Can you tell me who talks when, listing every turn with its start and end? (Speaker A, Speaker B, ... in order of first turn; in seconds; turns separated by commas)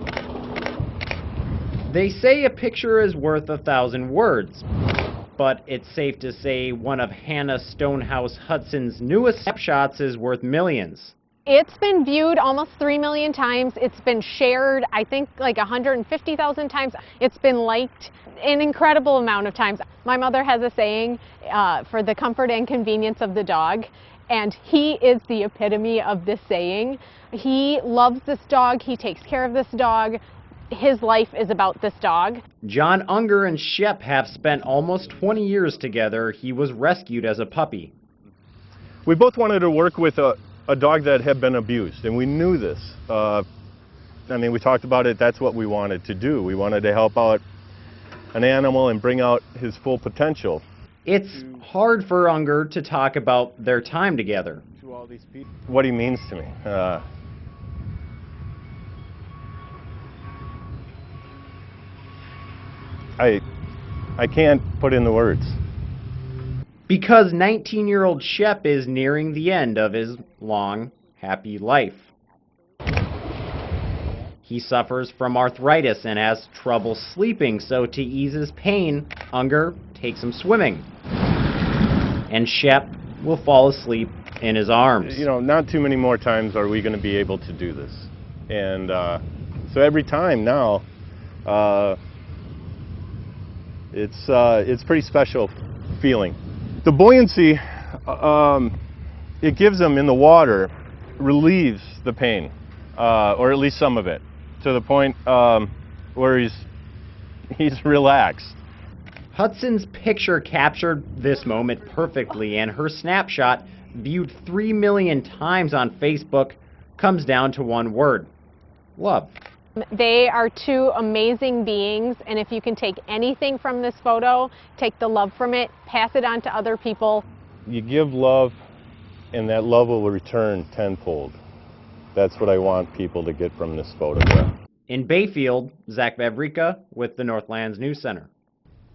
Speaker A: 1.9-4.6, Speaker A: 5.4-11.1, Speaker B: 11.4-30.2, Speaker B: 30.7-32.4, Speaker A: 32.6-37.9, Speaker C: 39.0-43.4, Speaker C: 44.3-47.4, Speaker C: 48.3-50.6, Speaker A: 51.0-54.6, Speaker C: 54.8-57.0, Speaker C: 63.2-63.4, Speaker C: 64.2-65.6, Speaker A: 66.9-72.1, Speaker A: 74.5-80.9, Speaker A: 82.3-85.2, Speaker C: 85.0-90.8, Speaker C: 91.5-92.0, Speaker C: 93.9-98.8, Speaker C: 99.4-106.7, Speaker C: 107.5-108.6, Speaker A: 109.3-118.3, Speaker A: 119.0-119.3, Speaker B: 119.9-127.2, Speaker C: 127.7-128.6, Speaker C: 129.3-131.4, Speaker C: 132.1-134.5, Speaker A: 134.9-138.3